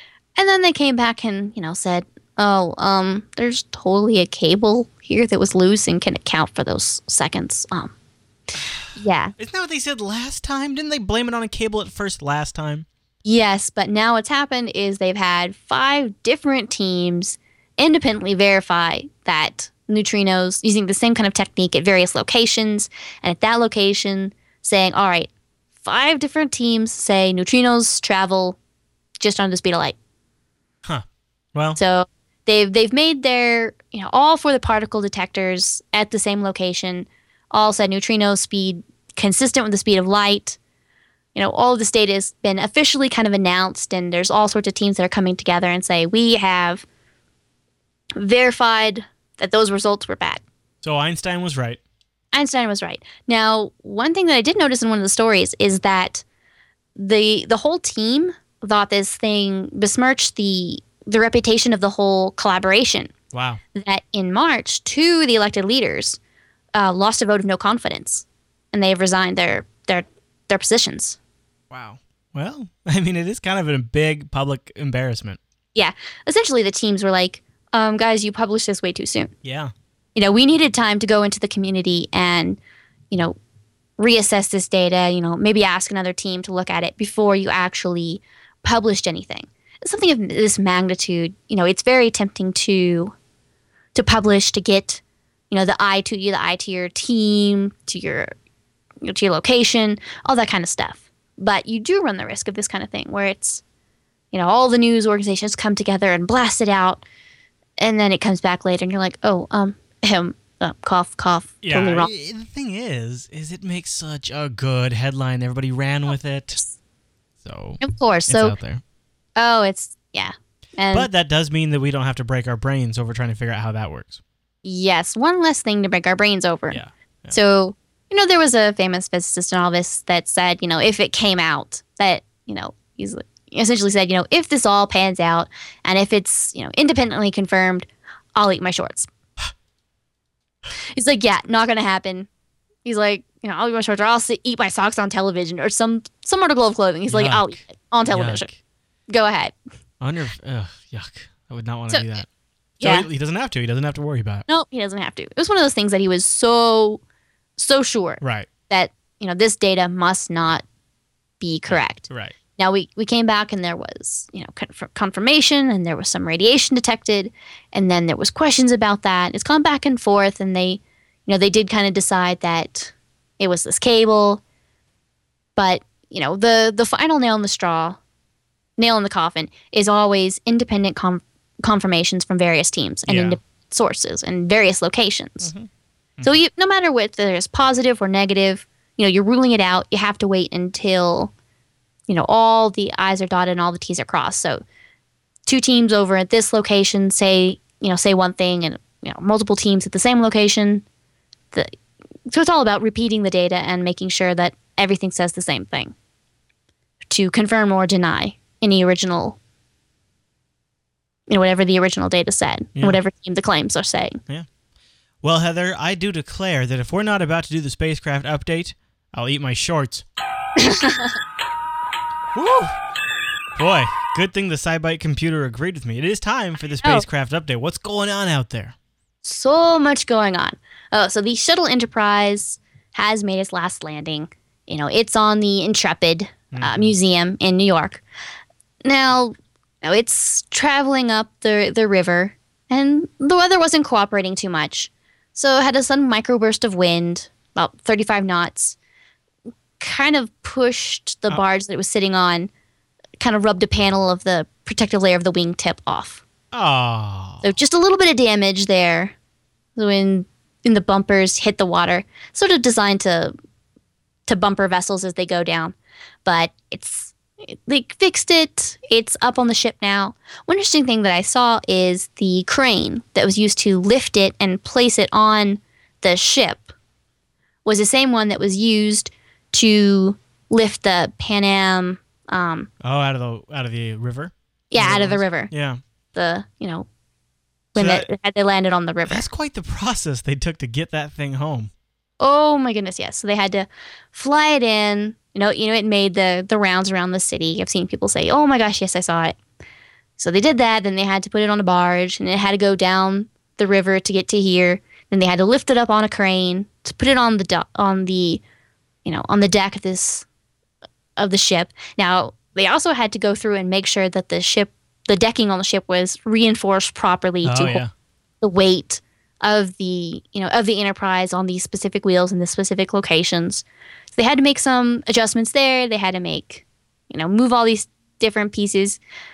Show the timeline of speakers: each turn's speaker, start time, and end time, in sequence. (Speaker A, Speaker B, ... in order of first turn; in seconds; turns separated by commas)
Speaker A: 0.4-7.9, Speaker A: 8.9-9.3, Speaker B: 9.4-12.9, Speaker A: 13.2-25.3, Speaker A: 25.8-28.6, Speaker A: 29.2-29.9, Speaker B: 30.9-31.8, Speaker A: 31.8-40.6, Speaker A: 41.3-46.8, Speaker A: 48.2-50.4, Speaker B: 50.8-51.8, Speaker A: 52.3-56.2, Speaker A: 57.0-63.1, Speaker B: 63.3-63.6, Speaker A: 63.7-66.2, Speaker A: 66.7-71.2, Speaker B: 71.7-75.4, Speaker A: 75.7-79.3, Speaker B: 79.4-79.7, Speaker A: 80.2-82.6, Speaker A: 83.1-83.4, Speaker A: 84.0-93.1, Speaker A: 93.9-98.3, Speaker A: 99.0-103.6, Speaker A: 104.3-107.0, Speaker A: 107.8-112.1, Speaker B: 111.6-116.6, Speaker B: 117.4-118.8, Speaker A: 117.8-118.5, Speaker A: 119.4-121.1, Speaker B: 120.9-124.2, Speaker A: 124.6-126.8, Speaker B: 126.7-127.4, Speaker A: 127.3-139.1, Speaker A: 140.9-142.3, Speaker A: 142.8-148.5, Speaker B: 147.1-148.5, Speaker A: 149.1-149.6, Speaker B: 150.0-152.3, Speaker A: 152.8-153.1, Speaker B: 152.8-154.4, Speaker A: 154.5-157.0, Speaker A: 157.6-160.6, Speaker B: 158.2-158.5, Speaker A: 161.4-174.4, Speaker B: 161.7-162.3, Speaker A: 175.6-178.0, Speaker A: 178.8-185.5, Speaker B: 183.1-183.4, Speaker B: 185.4-186.3, Speaker A: 186.2-191.3, Speaker A: 192.1-194.6, Speaker A: 195.4-200.8, Speaker A: 202.3-205.9, Speaker A: 207.1-209.4, Speaker A: 211.3-214.2, Speaker B: 215.2-220.1, Speaker A: 220.6-221.2, Speaker B: 222.3-222.7, Speaker B: 223.6-228.8, Speaker A: 229.2-238.0, Speaker B: 236.5-236.9, Speaker A: 238.8-248.8, Speaker A: 249.8-252.5, Speaker A: 253.2-256.2, Speaker B: 256.5-257.5, Speaker A: 257.4-259.1, Speaker A: 259.8-263.3, Speaker A: 264.3-276.7, Speaker A: 277.6-282.7, Speaker B: 282.8-285.8, Speaker A: 284.7-285.5, Speaker A: 286.1-286.9, Speaker A: 287.7-289.3, Speaker B: 287.8-288.1, Speaker B: 289.1-291.7, Speaker A: 292.2-299.4, Speaker A: 300.2-308.4, Speaker A: 309.1-310.3, Speaker A: 311.2-317.8, Speaker B: 317.4-317.9, Speaker A: 318.4-323.6, Speaker A: 324.2-329.0